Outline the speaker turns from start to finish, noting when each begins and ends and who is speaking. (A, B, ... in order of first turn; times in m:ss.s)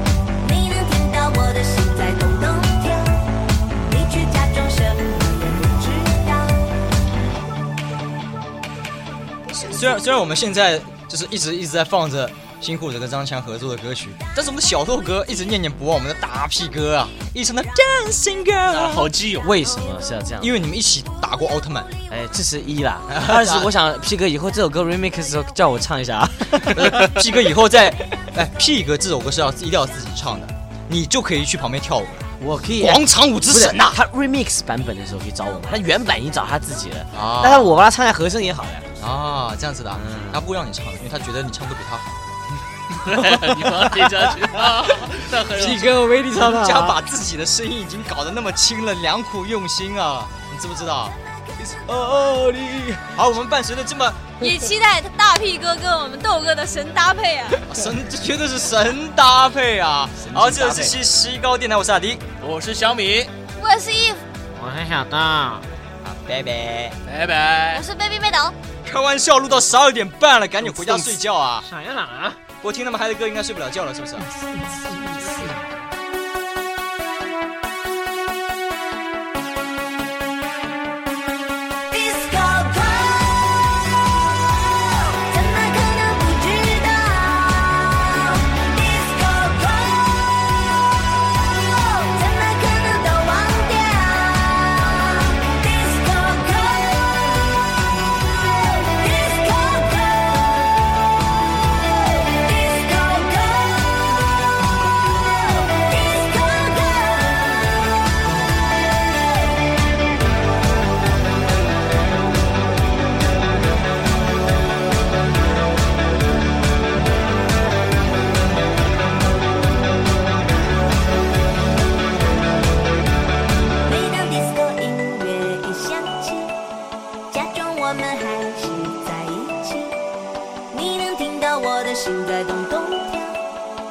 0:00.4-0:03.2 A
0:03.8-0:06.7 A
0:09.6-0:19.2 B
0:18.7-0:19.5 C
0:19.4-0:20.6 D
0:20.4-0:22.0 B
0:22.1-0:27.3 D
0:23.1-0:23.7 B
0:26.7-0:34.0 B
0:32.4-0:38.9 D
0:37.1-0:37.7 B
0:39.0-0:42.1 B
0:39.9-0:40.5 D
0:43.0-0:45.9 C
0:43.2-0:44.9 D
0:45.5-0:47.0 D
0:46.3-0:51.2 B
0:51.8-0:53.2 D
0:53.2-0:54.4 B
0:54.4-0:57.6 E
0:57.6-1:02.2 B
1:00.2-1:01.0 D
1:02.4-1:03.3 C
1:03.6-1:04.2 E
1:04.6-1:05.7 D
1:06.0-1:07.0 B
1:07.0-1:07.9 C
1:07.7-1:08.6 E
1:08.8-1:11.7 B
1:10.6-1:11.2 C
1:11.6-1:12.4 D
1:12.6-1:14.3 B
1:14.2-1:15.6 D
1:21.9-1:23.8 A
1:24.5-1:30.8 A
1:31.3-1:37.6 A
1:38.2-1:40.7 A
1:41.6-1:47.9 A
1:48.8-1:49.7 A
2:03.9-2:06.5 A
2:07.3-2:10.0 A
2:10.7-2:13.4 A